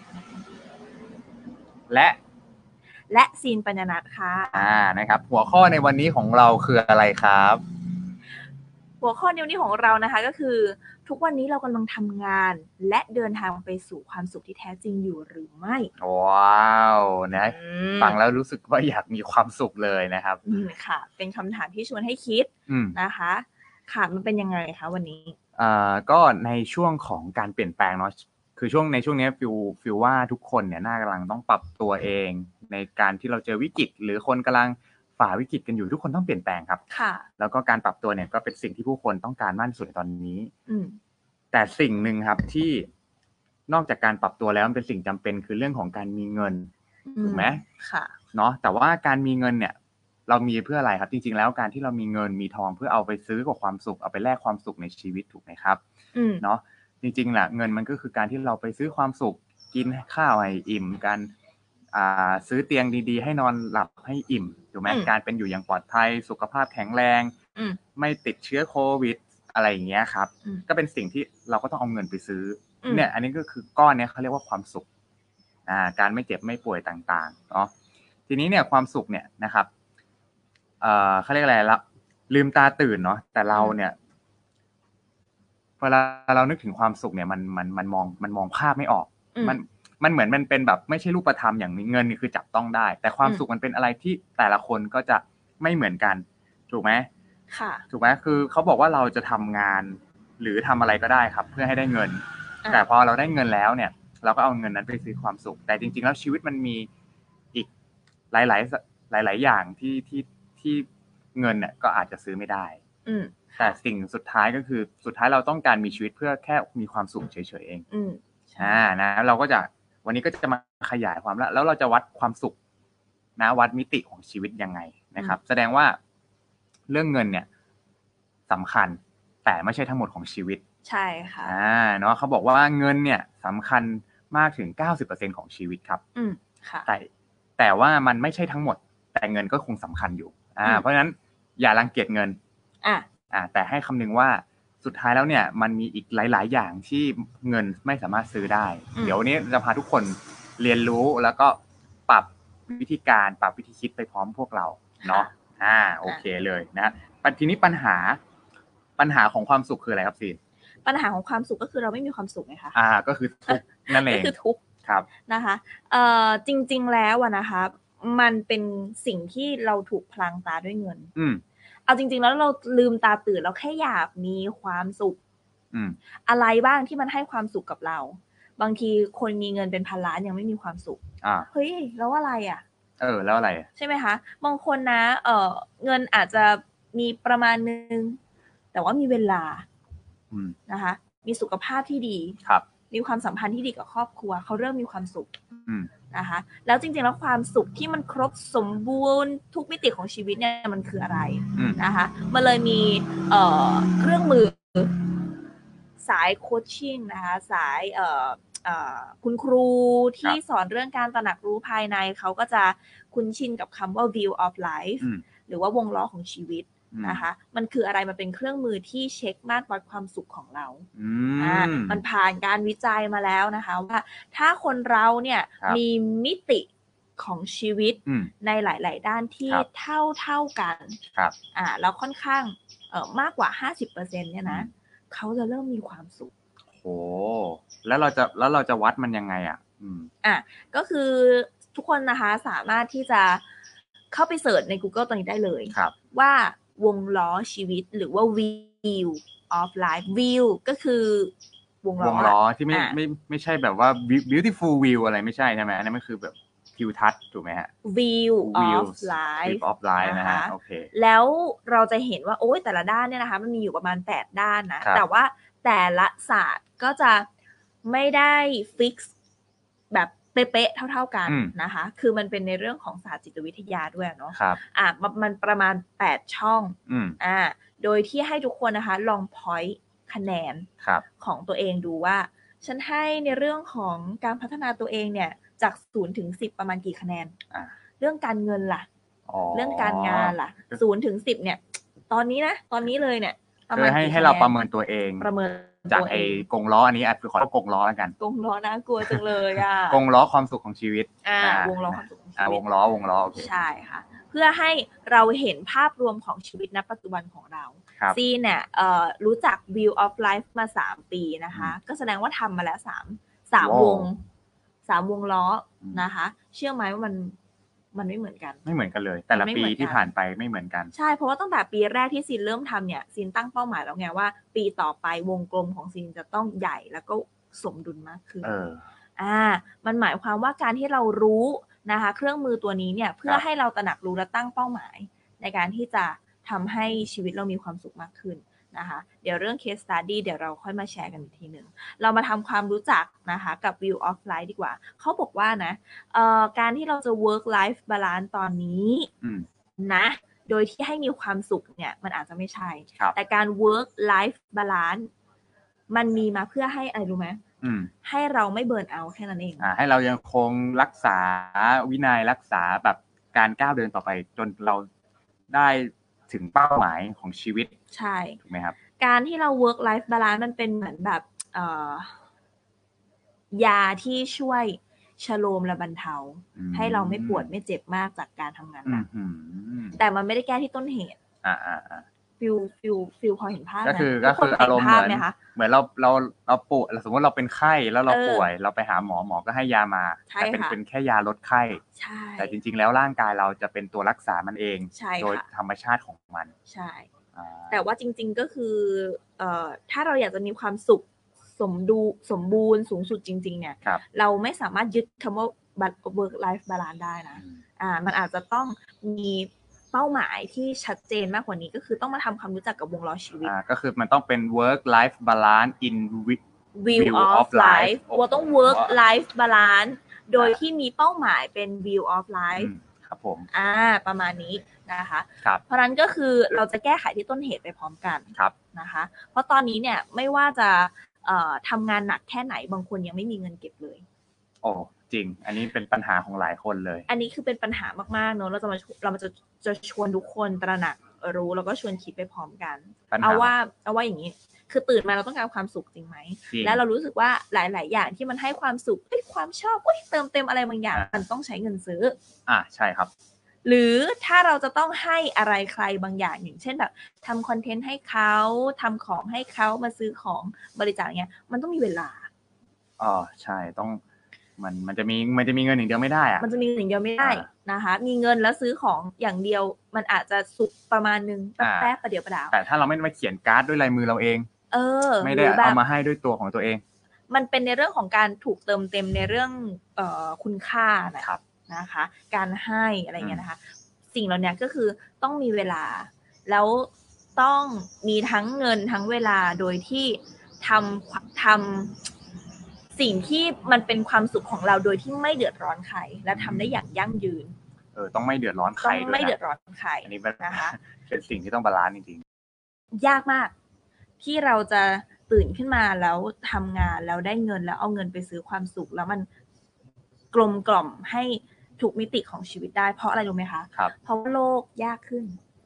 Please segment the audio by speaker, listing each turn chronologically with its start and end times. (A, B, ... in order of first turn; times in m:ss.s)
0:01.9-0:02.2 A
0:03.1-0:04.7 B
0:04.5-0:07.6 A
0:09.0-0:15.9 B
0:16.0-0:20.4 A
0:17.4-0:18.2 B
0:20.4-0:25.4 B
0:22.7-0:23.0 A
0:25.6-0:36.8 A
0:36.9-0:37.3 B
0:37.4-0:40.5 A
0:40.7-0:41.0 B
0:41.5-0:42.9 A
0:43.7-0:46.7 A
0:47.0-0:48.1 B
0:47.2-0:47.6 A
0:48.3-0:49.8 A
0:50.3-0:55.8 A
0:56.1-0:56.4 B
0:56.4-1:01.3 A
1:01.9-1:07.3 A
1:08.0-1:14.8 A
1:12.8-1:13.1 B
1:15.7-1:17.7 A
1:18.3-1:19.7 A
1:20.8-1:24.0 A
1:25.8-1:37.1 A
1:29.3-1:29.6 B
1:37.5-1:37.8 B
1:37.9-1:46.9 A
1:48.3-1:52.8 A
1:53.0-1:53.7 B
1:53.6-1:57.8 A
1:57.9-1:58.8 B
1:58.6-2:02.6 A
2:03.4-2:06.0 A
2:06.9-2:07.5 A
2:08.5-2:10.6 A
2:10.8-2:11.6 B
2:11.4-2:16.0 A
2:16.1-2:16.9 B
2:16.9-2:22.4 A
2:22.8-2:23.1 B
2:23.3-2:38.2 A
2:35.0-2:35.3 B
2:39.0-2:40.4 A
2:40.8-2:42.8 B
2:42.7-2:45.1 A
2:43.5-2:44.6 B
2:45.2-2:51.1 B
2:51.2-2:51.4 A
2:51.9-2:55.2 B
2:55.7-2:56.0 A
2:56.2-3:02.6 B
3:01.2-3:01.5 A
3:03.0-3:03.7 A
3:03.8-3:08.2 B
3:08.7-3:09.6 B
3:10.3-3:10.6 A
3:10.7-3:12.4 B
3:12.9-3:15.4 B
3:16.1-3:25.0 B
3:21.6-3:21.8 A
3:26.0-3:40.9 B
3:36.9-3:37.2 A
3:41.0-3:42.0 A
3:41.4-3:51.0 B
3:48.0-3:48.3 A
3:51.5-3:56.3 B
3:56.7-4:00.1 A
4:00.2-4:03.4 B
4:04.1-4:13.0 B
4:12.0-4:17.7 A
4:17.8-4:27.3 B
4:18.4-4:20.9 A
4:27.8-4:29.1 B
4:29.9-4:40.7 B
4:31.3-4:31.5 A
4:34.3-4:34.6 A
4:36.9-4:37.2 A
4:41.2-4:47.4 B
4:48.0-4:48.9 B
4:49.3-4:50.8 A
4:49.5-4:54.6 B
4:53.7-4:55.3 A
4:55.2-4:56.4 B
4:55.9-4:58.1 A
4:58.2-5:00.0 B
4:59.9-5:03.5 A
5:01.2-5:02.6 B
5:03.4-5:14.2 B
5:13.6-5:14.1 A
5:14.8-5:17.4 B
5:17.9-5:18.6 B
5:18.6-5:20.9 A
5:19.3-5:20.0 B
5:20.9-5:28.5 B
5:28.4-5:28.8 A
5:29.2-5:49.1 B
5:49.8-5:55.1 B
5:55.9-5:57.4 B
5:57.6-5:57.9 A
5:58.0-5:59.7 B
5:59.6-6:04.9 A
6:05.5-6:07.7 A
6:07.9-6:08.4 B
6:08.4-6:08.8 A
6:09.0-6:12.1 B
6:13.5-6:19.0 B
6:16.6-6:17.5 A
6:18.8-6:20.0 A
6:19.9-6:21.2 B
6:21.4-6:22.0 A
6:22.4-6:25.4 B
6:23.8-6:31.8 A
6:28.1-6:28.5 B
6:30.3-6:30.8 B
6:32.0-6:32.6 B
6:32.4-6:36.5 A
6:34.9-6:35.4 B
6:36.7-6:37.1 B
6:37.3-6:37.8 A
6:37.7-6:53.5 B
6:53.4-6:56.4 A
6:56.7-7:02.7 B
6:56.9-6:59.0 A
7:02.6-7:03.5 A
7:03.5-7:14.0 B
7:14.6-7:17.1 A
7:17.1-7:32.2 B
7:23.1-7:23.5 A
7:26.5-7:26.8 A
7:32.5-7:33.1 A
7:33.6-7:42.3 B
7:43.0-7:44.0 A
7:44.6-7:46.4 A
7:46.4-7:52.6 B
7:47.2-7:47.4 A
7:51.6-7:51.9 A
7:52.5-7:54.5 A
7:54.7-7:55.8 B
7:55.2-7:56.8 A
7:57.3-8:03.6 B
8:04.1-8:12.0 B
8:13.0-8:17.5 B
8:16.3-8:16.8 A
8:17.9-8:19.3 A
8:18.8-8:20.8 B
8:20.0-8:22.2 A
8:22.9-8:23.5 B
8:24.2-8:29.3 B
8:30.3-8:35.4 B